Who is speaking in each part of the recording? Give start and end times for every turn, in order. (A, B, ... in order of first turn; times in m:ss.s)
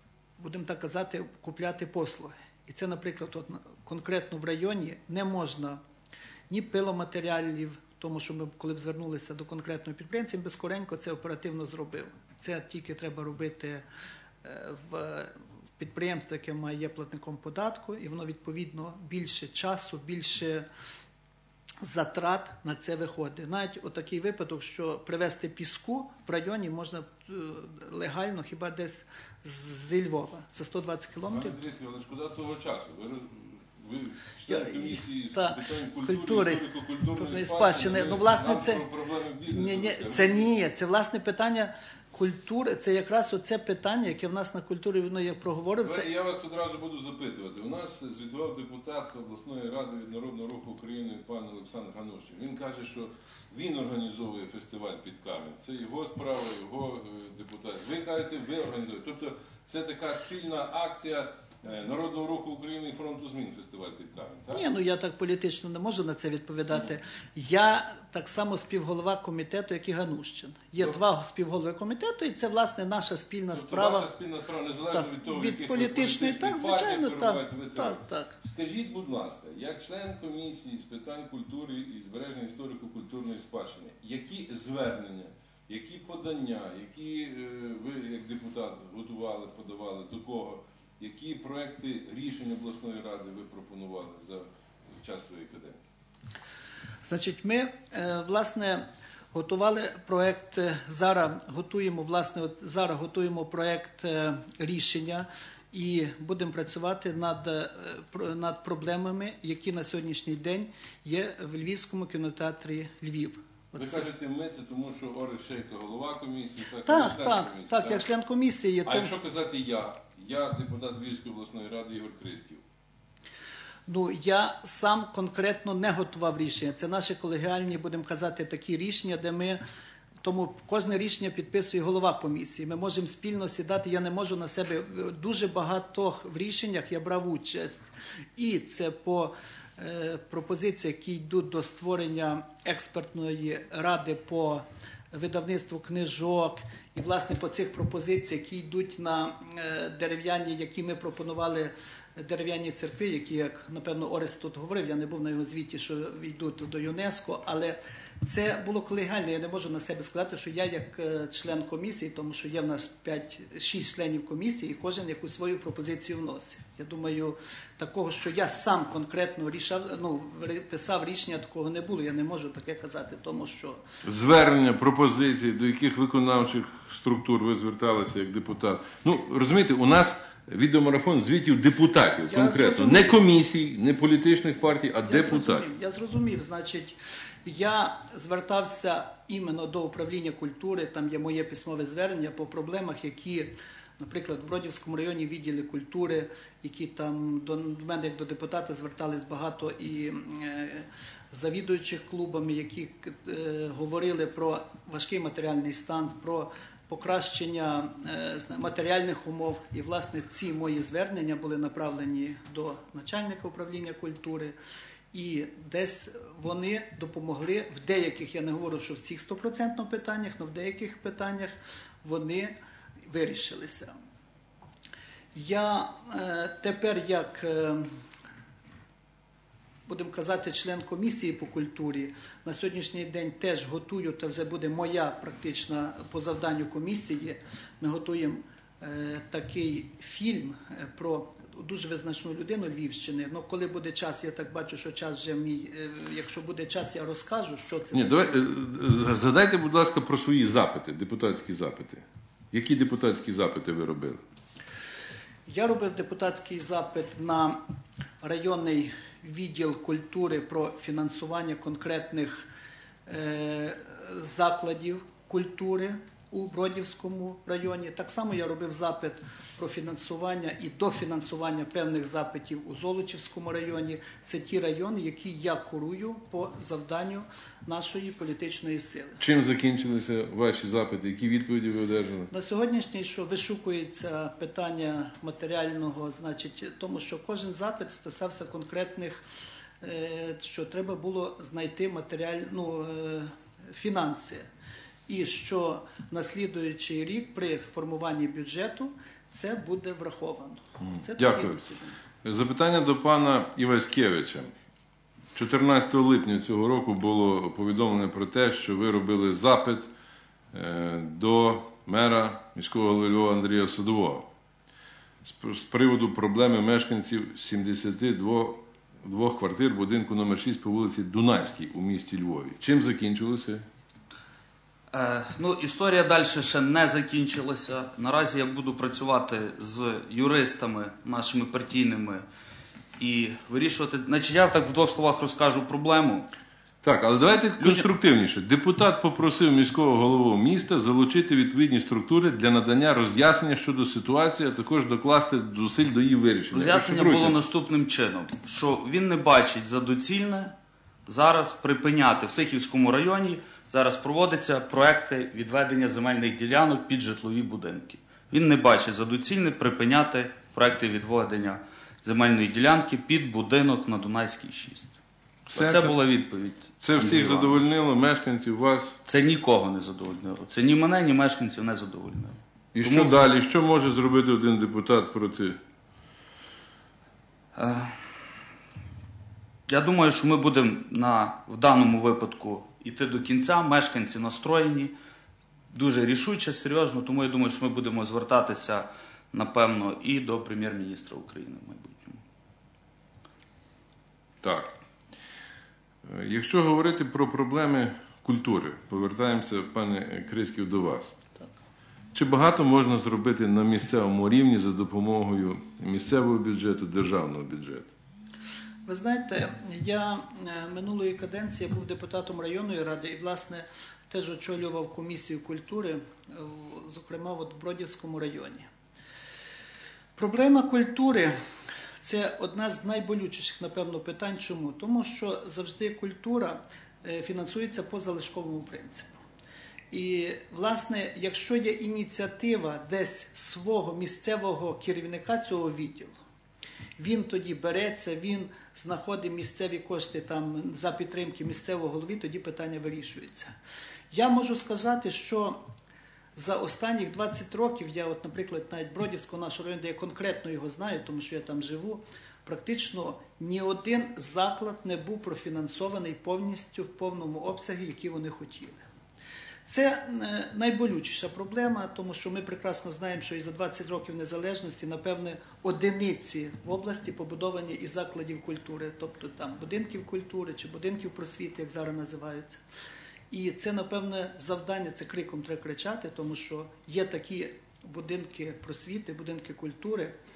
0:00.4-0:05.8 A
0:06.5-0:13.8 A
0:14.4-0:20.7 A
0:21.8-0:31.6 A
0:31.3-0:40.5 B
0:34.5-0:36.6 A
0:37.2-0:38.8 A
0:39.5-0:46.1 A
0:45.8-1:04.7 B
1:04.5-1:14.1 A
1:13.5-1:34.4 B
1:14.9-1:18.4 A
1:35.0-1:35.8 B
1:37.0-1:54.0 A
1:53.8-1:58.1 B
1:56.8-1:59.1 A
1:58.8-2:02.6 B
2:03.8-2:09.6 A
2:10.2-2:17.8 A
2:18.4-2:53.8 A
2:54.0-3:05.7 B
3:02.3-3:03.2 A
3:05.0-3:34.5 A
3:35.1-3:42.5 A
3:43.1-3:43.9 A
3:45.3-3:47.9 A
3:49.9-4:08.4 A
4:07.9-4:14.2 B
4:15.5-4:17.6 A
4:18.2-4:22.5 A
4:23.0-4:39.2 A
4:39.2-4:42.3 B
4:42.3-4:49.2 A
4:49.8-4:54.4 A
4:55.1-5:02.0 A
5:00.8-5:01.6 B
5:02.2-5:04.5 B
5:05.3-5:09.9 B
5:10.5-5:14.3 B
5:15.2-5:23.6 B
5:24.9-5:32.2 C
5:33.0-5:36.3 C
5:36.8-5:47.3 B
5:37.6-5:37.8 C
5:46.5-5:50.5 C
5:51.0-6:05.0 C
6:05.5-6:05.9 B
6:05.5-6:07.6 C
6:06.8-6:09.0 B
6:09.0-6:13.2 C
6:12.7-6:15.6 B
6:17.5-6:18.0 C
6:19.7-6:24.9 C
6:25.7-6:32.2 C
6:34.4-6:34.7 B
6:36.0-6:41.2 B
6:42.1-6:47.9 B
6:48.8-6:58.7 A
7:00.2-7:01.3 A
7:02.0-7:09.2 A
7:09.9-7:16.2 A
7:17.0-7:23.5 A
7:24.1-7:25.6 A
7:26.4-7:38.8 A
7:39.6-7:52.6 A
7:53.3-8:00.1 A